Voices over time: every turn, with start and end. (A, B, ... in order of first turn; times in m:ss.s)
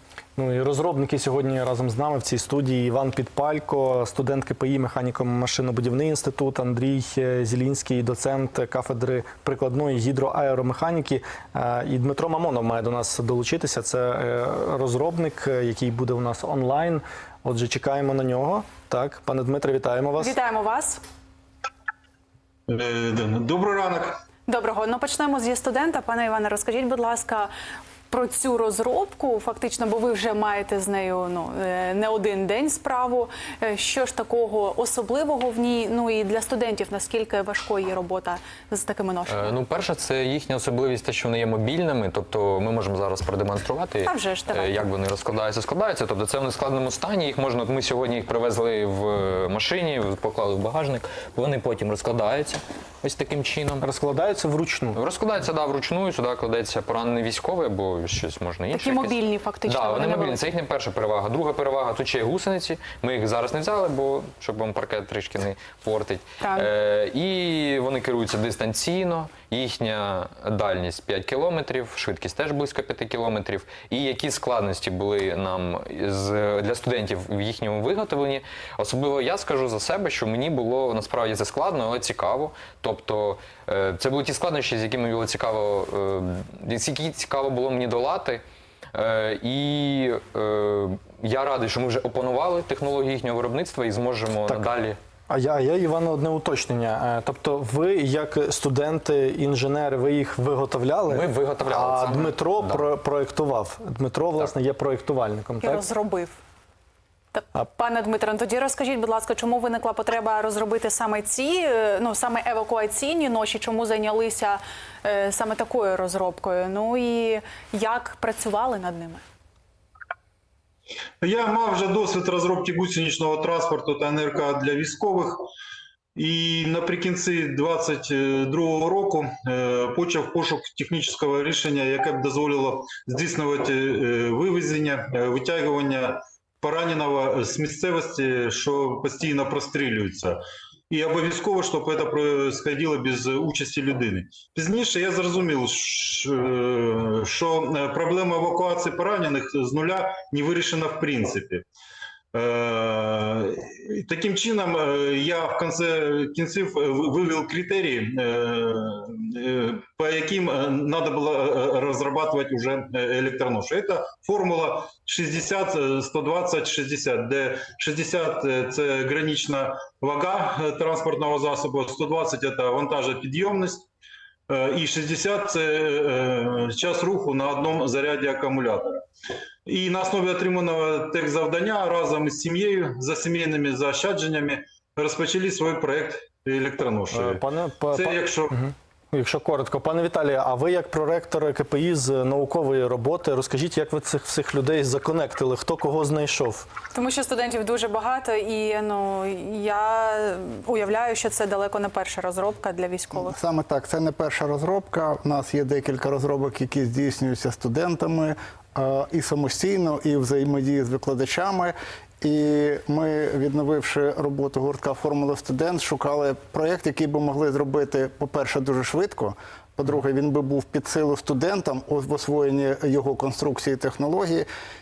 0:00.4-0:20.3 A
0:20.2-0:21.0 B
0:22.7-0:24.2 C
0:24.5-0:27.5 B
0:28.1-0:39.5 B
0:39.3-0:53.9 D
0:44.0-0:44.8 B
0:53.8-0:55.0 A
0:55.0-0:59.2 D
0:58.7-1:00.4 B
0:59.7-1:28.4 D
1:06.4-1:06.7 B
1:28.9-1:35.0 D
1:34.4-1:34.7 A
1:35.3-1:45.8 A
1:41.1-1:42.9 D
1:45.6-1:46.4 B
1:47.3-1:59.2 B
2:01.2-2:05.5 C
2:06.1-2:20.4 C
2:20.9-2:31.6 C
2:32.3-2:53.9 C
2:54.5-2:59.0 C
2:59.6-3:08.6 C
3:07.1-3:16.7 A
3:16.9-3:23.3 B
3:23.1-3:44.5 E